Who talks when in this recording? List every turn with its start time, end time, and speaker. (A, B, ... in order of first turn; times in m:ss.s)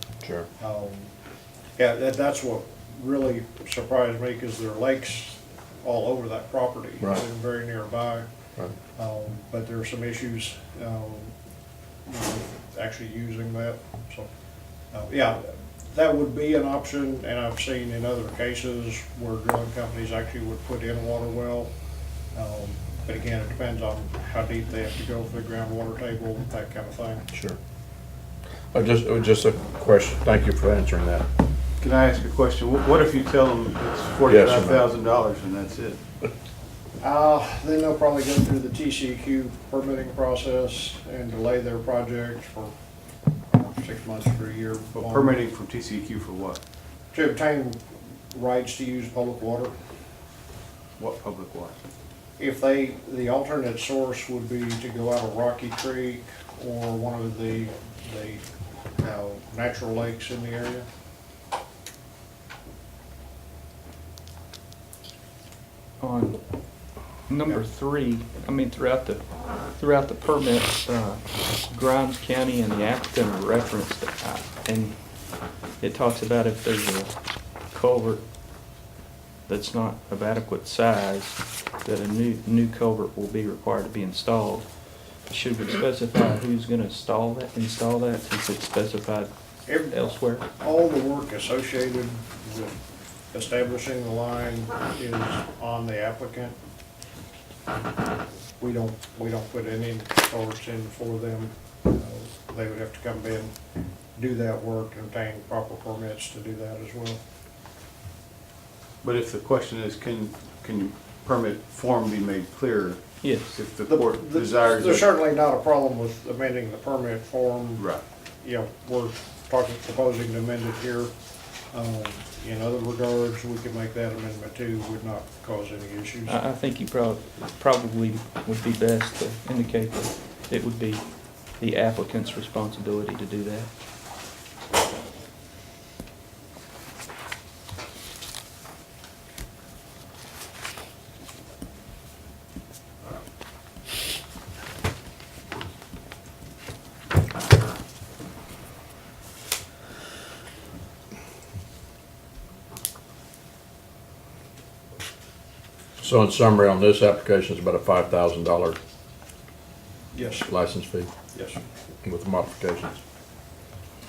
0:00.2-0:00.5 A
0:00.6-0:01.1 B
0:01.8-0:08.3 B
0:09.0-0:11.3 B
0:12.1-0:14.3 B
0:14.9-0:21.7 B
0:22.3-0:27.3 B
0:27.3-0:27.6 A
0:28.7-0:31.2 A
0:31.8-0:36.0 C
0:34.3-0:34.9 A
0:37.0-0:42.7 B
0:43.5-0:45.4 B
0:44.9-0:46.6 C
0:47.1-0:47.8 B
0:48.3-0:49.7 B
0:51.0-0:51.8 C
0:52.4-0:58.4 B
0:59.0-1:00.9 B
1:06.0-1:06.4 D
1:07.3-1:09.2 D
1:09.8-1:15.0 D
1:15.8-1:17.2 D
1:17.7-1:18.2 D
1:19.5-1:24.7 D
1:25.3-1:29.3 D
1:29.7-1:30.0 B
1:29.8-1:30.5 D
1:30.6-1:32.8 B
1:33.3-1:36.6 B
1:38.6-1:43.5 B
1:44.2-1:47.2 B
1:49.0-1:53.0 C
1:53.2-1:53.6 D
1:53.6-1:55.1 C
1:53.9-1:57.8 B
1:57.8-1:58.0 C
1:58.4-2:01.1 B
2:01.7-2:06.4 B
2:06.3-2:13.7 D
2:36.0-2:38.8 A
2:40.1-2:40.5 B
2:40.5-2:41.1 A
2:41.3-2:41.6 B
2:42.0-2:43.0 A